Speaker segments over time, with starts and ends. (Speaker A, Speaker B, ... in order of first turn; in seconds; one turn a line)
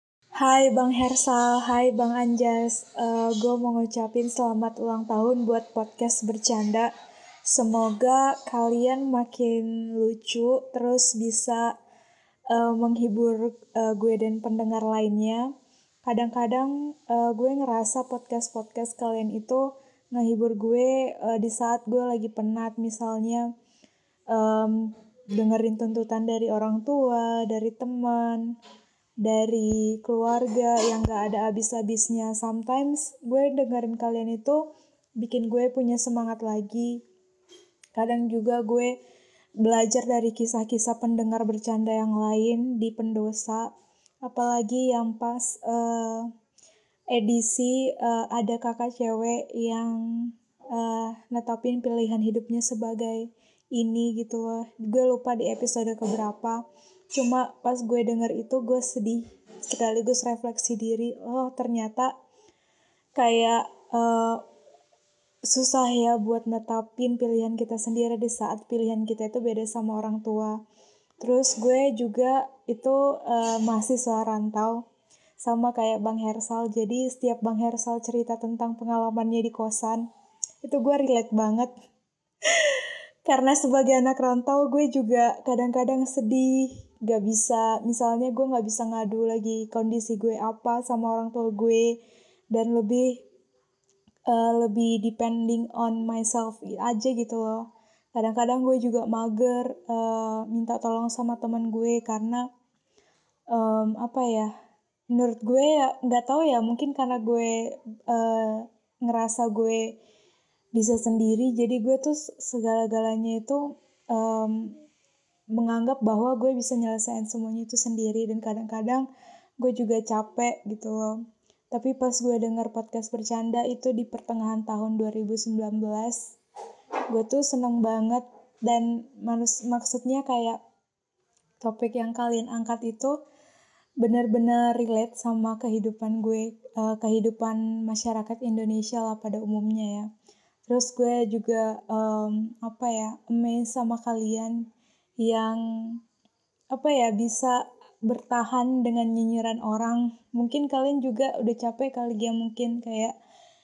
Speaker A: 0.4-6.9
Speaker A: 7.5-11.7
Speaker A: 12.5-15.5
Speaker A: 16.1-23.5
Speaker A: 24.3-28.5
Speaker A: 29.2-34.6
Speaker A: 35.2-37.0
Speaker A: 38.0-38.9
Speaker A: 39.6-43.7
Speaker A: 44.2-46.3
Speaker A: 47.1-56.6
Speaker A: 57.1-62.1
Speaker A: 63.2-64.4
Speaker A: 65.5-70.6
Speaker A: 71.2-74.8
Speaker A: 75.4-80.0
Speaker A: 80.6-81.7
Speaker A: 82.5-91.9
Speaker A: 92.5-93.2
Speaker A: 94.3-102.4
Speaker A: 103.5-104.5
Speaker A: 105.1-107.5
Speaker A: 108.1-109.9
Speaker A: 110.7-114.7
Speaker A: 115.5-119.0
Speaker A: 119.6-121.2
Speaker A: 121.7-126.2
Speaker A: 127.1-130.6
Speaker A: 131.6-133.2
Speaker A: 134.0-140.1
Speaker A: 140.7-144.7
Speaker A: 145.2-146.0
Speaker A: 146.7-153.1